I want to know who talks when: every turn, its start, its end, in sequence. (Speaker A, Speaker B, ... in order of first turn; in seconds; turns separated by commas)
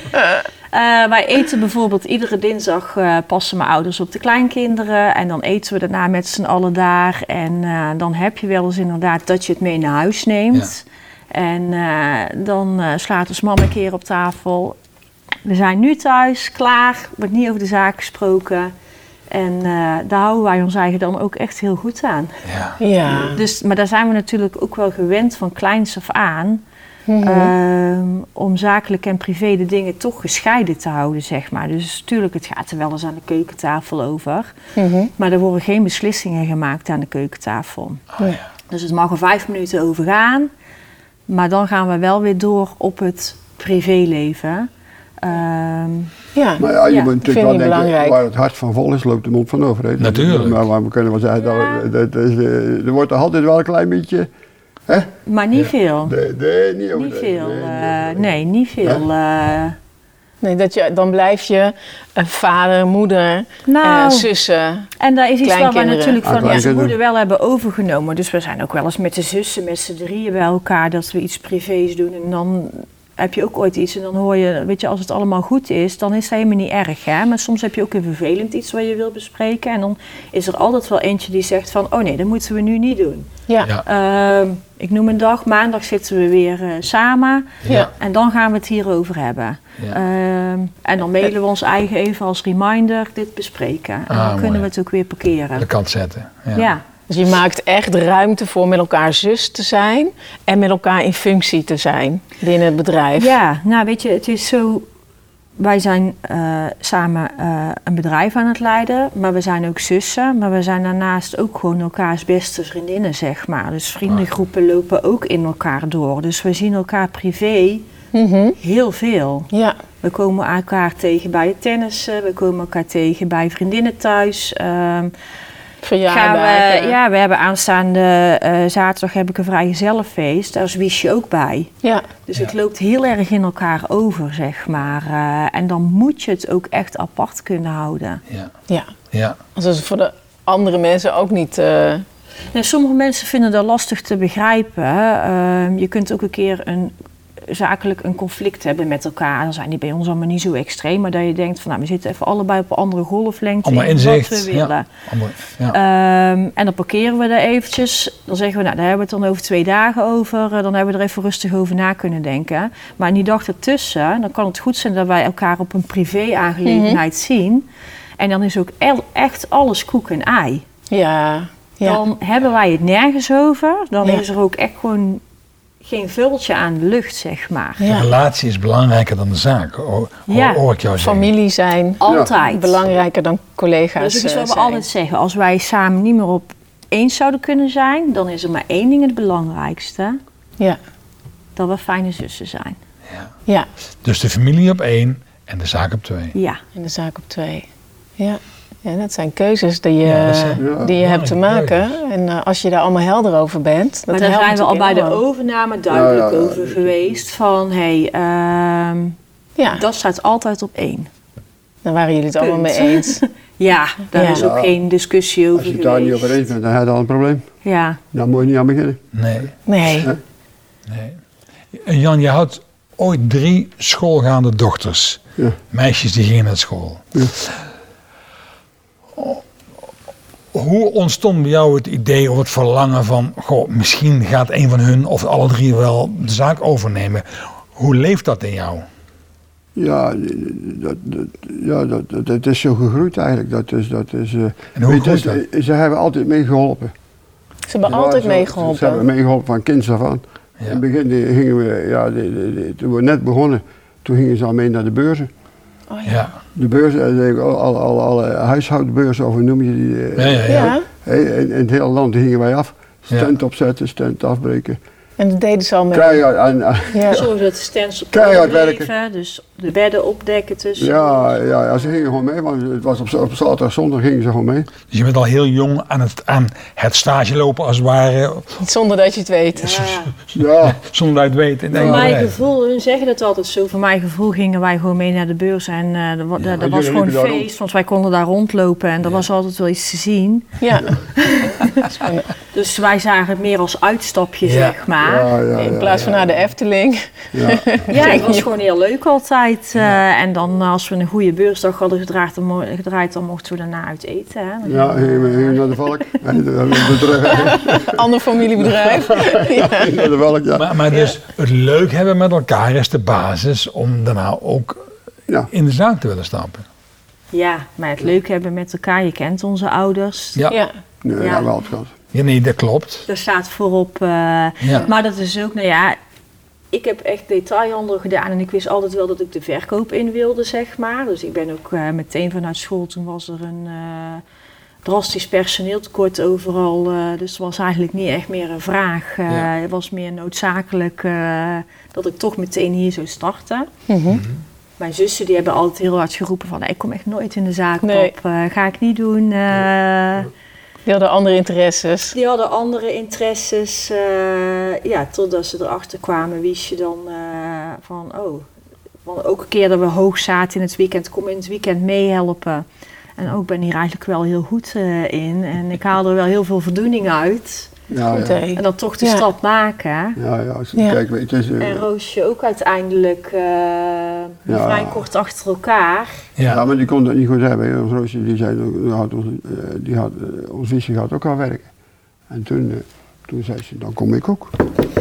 Speaker A: 0.7-14.8, Speaker A: 15.4-18.7, Speaker A: 19.3-22.4, Speaker B: 22.5-22.8, Speaker C: 22.8-23.4, Speaker D: 23.1-23.4, Speaker A: 23.3-26.6, Speaker C: 27.1-27.5, Speaker A: 27.2-34.5, Speaker C: 34.8-35.1, Speaker A: 35.2-38.0, Speaker A: 38.7-40.5, Speaker A: 41.3-44.7, Speaker A: 45.2-46.1, Speaker C: 46.4-46.7, Speaker D: 46.6-54.3, Speaker C: 47.2-48.2, Speaker B: 50.0-50.6, Speaker A: 51.4-51.8, Speaker A: 55.3-56.1, Speaker D: 56.1-58.3, Speaker A: 57.0-59.8, Speaker C: 60.4-64.9, Speaker A: 63.7-64.3, Speaker A: 65.0-83.3, Speaker C: 65.4-66.2, Speaker D: 66.2-67.0, Speaker A: 83.8-95.7, Speaker B: 87.7-87.9, Speaker B: 94.1-94.7, Speaker B: 95.6-96.7, Speaker A: 96.5-96.8, Speaker C: 97.1-103.3, Speaker A: 103.2-104.9, Speaker A: 105.6-117.9, Speaker C: 118.1-118.6, Speaker A: 118.6-119.5, Speaker C: 119.5-119.8, Speaker A: 120.0-125.1, Speaker C: 125.8-127.0, Speaker A: 126.1-131.7, Speaker A: 132.3-138.2, Speaker B: 139.1-139.4, Speaker C: 139.6-142.1, Speaker A: 142.5-154.9, Speaker B: 153.6-155.8, Speaker A: 155.7-167.7, Speaker C: 166.7-167.0, Speaker A: 168.2-170.6, Speaker C: 170.9-172.0, Speaker A: 171.8-175.2, Speaker A: 175.8-177.9, Speaker C: 177.8-178.1, Speaker B: 177.9-181.3, Speaker A: 180.3-180.6, Speaker C: 181.0-184.8, Speaker A: 182.0-182.8, Speaker A: 184.0-190.2, Speaker A: 191.6-192.8, Speaker B: 194.0-196.3, Speaker A: 196.3-196.6, Speaker C: 196.7-205.2, Speaker B: 200.0-202.0, Speaker D: 200.6-200.9, Speaker A: 204.1-209.2, Speaker D: 205.9-207.1, Speaker C: 209.6-209.8, Speaker A: 209.7-211.1, Speaker C: 211.8-213.2, Speaker A: 212.4-216.4, Speaker C: 214.2-214.4, Speaker D: 214.3-214.7, Speaker D: 215.6-217.5, Speaker A: 217.6-218.0, Speaker D: 218.1-219.0, Speaker B: 219.1-219.5, Speaker C: 219.7-220.1, Speaker B: 220.9-221.2, Speaker B: 221.7-225.2, Speaker B: 225.7-227.5, Speaker B: 229.2-229.4, Speaker B: 230.5-238.9, Speaker D: 239.8-246.9, Speaker B: 244.8-245.4, Speaker C: 247.7-249.0, Speaker D: 247.9-255.3, Speaker C: 255.9-256.2, Speaker B: 256.1-256.3, Speaker D: 256.6-264.8, Speaker B: 260.2-260.7, Speaker C: 260.5-260.9, Speaker C: 265.2-266.2, Speaker D: 265.9-267.2, Speaker C: 266.9-267.2, Speaker A: 267.1-271.8, Speaker D: 268.1-268.9, Speaker D: 270.8-274.7, Speaker B: 274.9-278.6, Speaker C: 278.6-280.0, Speaker A: 279.5-280.1, Speaker D: 280.3-280.8, Speaker B: 280.6-282.3, Speaker D: 281.7-282.2, Speaker A: 281.7-291.9, Speaker D: 286.6-287.5, Speaker C: 290.6-291.0, Speaker C: 291.9-292.3, Speaker A: 292.5-295.3, Speaker B: 294.4-294.8, Speaker D: 295.0-296.4, Speaker C: 295.5-298.4, Speaker D: 297.3-298.4, Speaker A: 297.9-305.8, Speaker D: 304.6-308.0, Speaker C: 307.4-310.1, Speaker D: 308.6-310.7, Speaker B: 310.5-314.9, Speaker B: 315.5-316.7, Speaker A: 317.3-320.5, Speaker D: 321.0-321.9, Speaker A: 321.2-321.5, Speaker B: 322.1-323.1, Speaker A: 323.1-326.0, Speaker B: 324.6-324.9, Speaker A: 326.7-334.2, Speaker A: 334.8-343.7, Speaker C: 343.9-344.2, Speaker B: 344.1-344.4, Speaker A: 344.8-350.3, Speaker C: 347.8-348.1, Speaker C: 350.9-352.1, Speaker A: 352.1-358.5, Speaker A: 359.1-362.6, Speaker A: 363.2-367.7, Speaker D: 367.9-368.4, Speaker C: 368.1-369.2, Speaker A: 368.5-370.2, Speaker D: 370.2-371.9, Speaker A: 371.6-376.2, Speaker D: 374.5-375.0, Speaker D: 376.4-381.7, Speaker D: 382.3-384.6